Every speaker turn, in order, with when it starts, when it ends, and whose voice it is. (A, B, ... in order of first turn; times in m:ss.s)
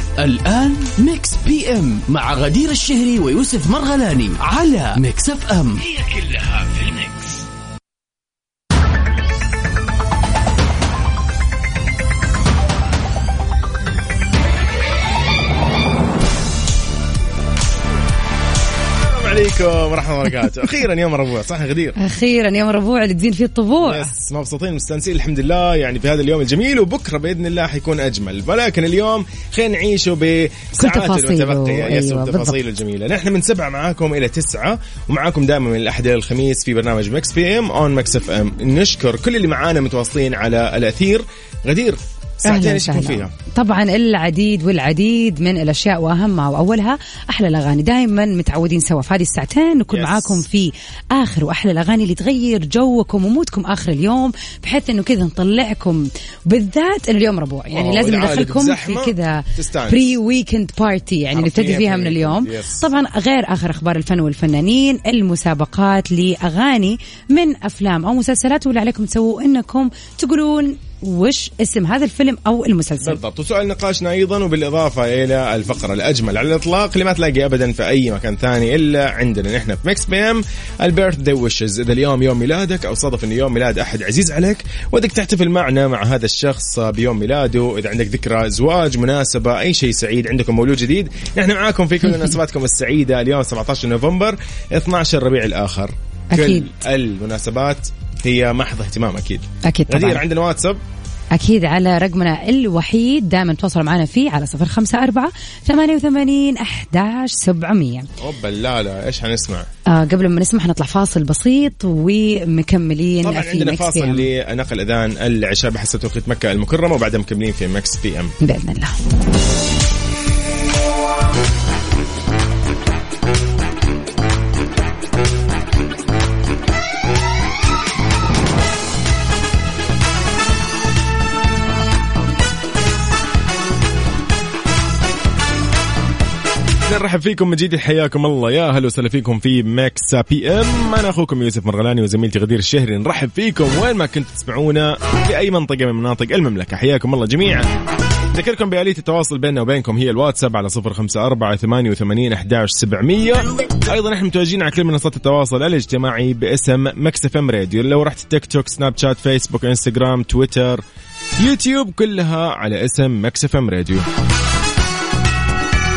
0:00.2-0:07.4 A
0:19.0-0:22.0 B
0:22.0-0:24.1 C
0:23.8-0:43.3 B
0:30.8-0:32.6 C
0:42.4-1:13.2 C
0:49.9-0:50.4 B
0:57.7-1:00.2 B
1:01.3-1:02.9 B
1:13.0-1:40.8 B
1:36.3-1:36.7 C
1:39.6-1:40.2 C
1:41.3-1:48.1 C
1:48.2-1:49.7 B
1:49.9-1:54.3 C
1:53.2-1:58.4 B
1:58.4-1:59.0 C
2:16.9-2:27.7 B
2:28.3-2:40.8 B
2:41.4-2:44.1 B